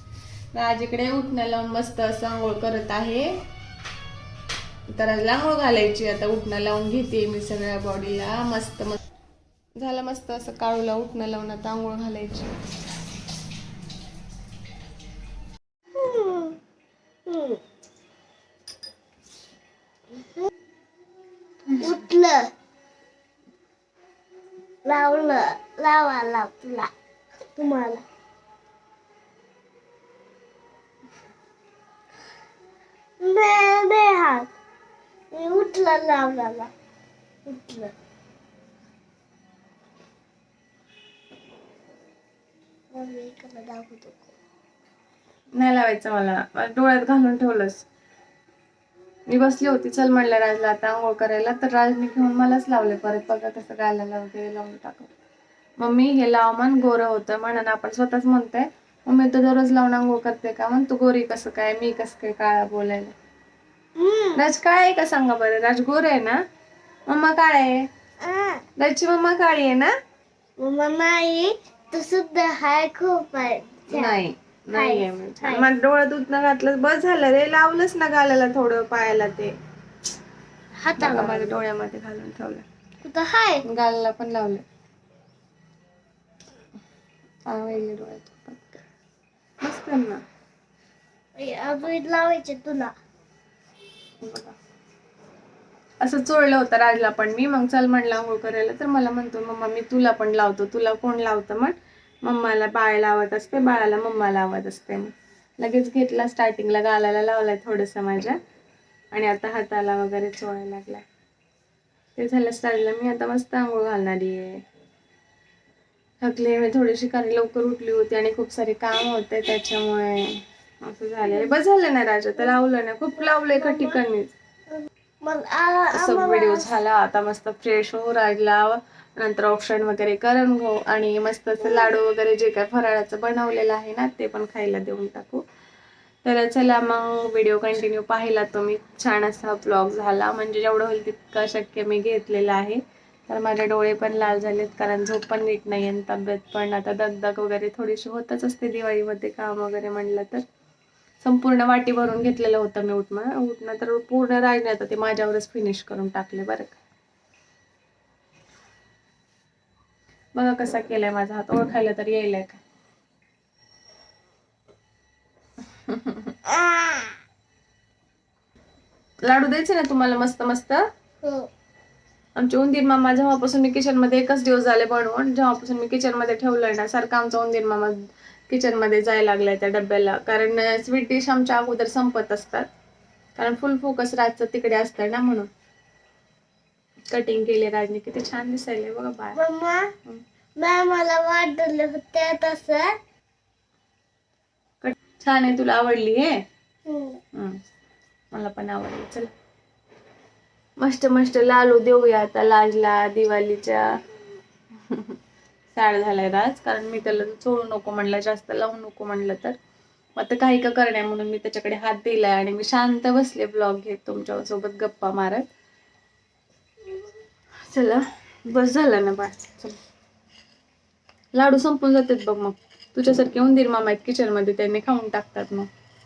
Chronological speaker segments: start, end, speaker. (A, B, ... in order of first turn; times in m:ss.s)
0:00.5-0:03.4 A
0:04.9-0:09.0 A
0:09.8-0:12.5 A
0:15.9-0:16.6 B
0:17.2-0:17.6 B
0:21.8-0:22.5 B
0:24.8-0:26.9 B
0:27.6-0:28.0 B
0:33.2-0:34.5 B
0:35.3-0:36.7 B
0:37.4-0:37.9 B
0:42.9-0:44.3 B
0:45.5-0:47.8 A
0:49.3-0:55.1 A
0:55.8-1:03.1 A
1:04.0-1:04.4 B
1:04.3-1:06.4 A
1:07.1-1:07.9 A
1:08.2-1:08.6 B
1:08.8-1:09.9 A
1:10.6-1:14.2 B
1:13.9-1:19.5 A
1:14.7-1:15.7 B
1:20.8-1:21.6 B
1:20.9-1:22.6 A
1:23.0-1:23.6 B
1:23.6-1:24.6 A
1:27.5-1:28.8 A
1:29.6-1:30.2 A
1:31.4-1:32.9 B
1:34.2-1:34.5 A
1:36.0-1:48.4 A
1:49.1-1:51.0 A
1:52.2-1:54.6 A
1:56.2-2:04.3 A
2:03.5-2:04.0 B
2:04.8-2:06.7 B
2:05.9-2:15.4 A
2:11.6-2:11.9 B
2:16.2-2:30.4 A
2:31.2-2:36.8 A
2:40.3-2:42.6 A
2:45.9-2:46.3 A
2:46.6-2:46.8 B
2:49.2-2:50.8 A
2:51.2-2:51.5 B
2:52.4-2:57.9 A
2:58.5-3:02.7 A
3:03.4-3:05.5 A
3:07.1-3:09.4 A
3:09.3-3:09.9 B
3:10.6-3:12.9 B
3:14.8-3:16.4 A
3:16.9-3:17.2 B
3:17.3-3:17.6 A
3:18.3-3:19.3 A
3:20.8-3:23.9 A
3:24.9-3:25.2 A
3:25.7-3:29.6 A
3:30.2-3:35.5 A
3:37.7-3:39.8 A
3:41.3-3:45.7 A